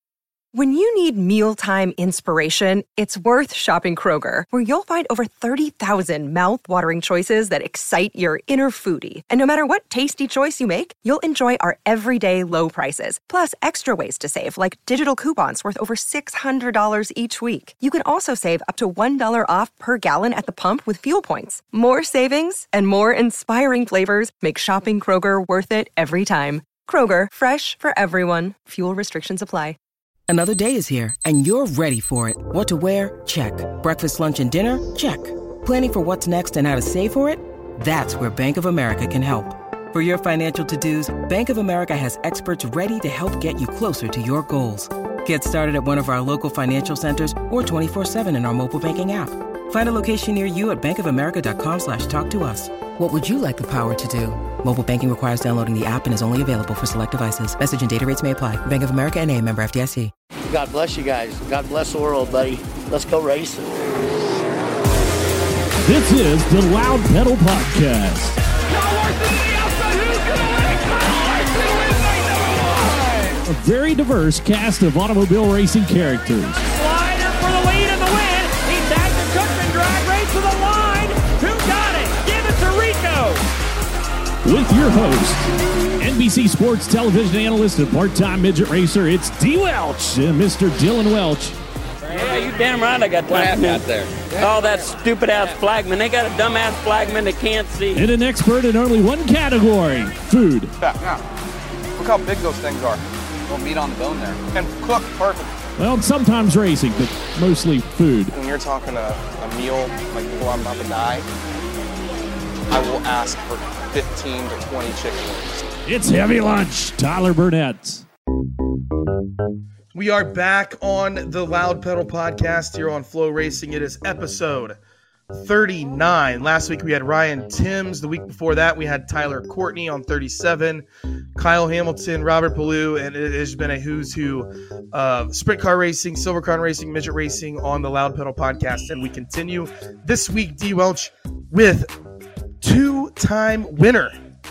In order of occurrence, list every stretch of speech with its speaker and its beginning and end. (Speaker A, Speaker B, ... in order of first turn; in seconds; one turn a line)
Speaker A: 0.5-29.8
Speaker B: 30.3-60.1
Speaker C: 60.5-63.7
Speaker D: 65.8-68.4
Speaker E: 68.7-73.4
Speaker D: 73.5-76.6
Speaker E: 76.7-83.4
Speaker D: 84.5-85.5
Speaker D: 86.0-91.6
Speaker F: 92.1-98.1
Speaker C: 93.3-94.1
Speaker D: 97.9-100.7
Speaker G: 100.8-101.2
Speaker H: 102.0-102.9
Speaker G: 102.2-104.4
Speaker H: 104.5-105.5
Speaker D: 105.8-108.3
Speaker H: 108.3-111.0
Speaker G: 108.8-111.2
Speaker G: 112.7-115.6
Speaker H: 112.8-115.2
Speaker D: 115.9-118.0
Speaker H: 119.9-124.8
Speaker H: 125.3-141.9
Speaker H: 142.6-144.2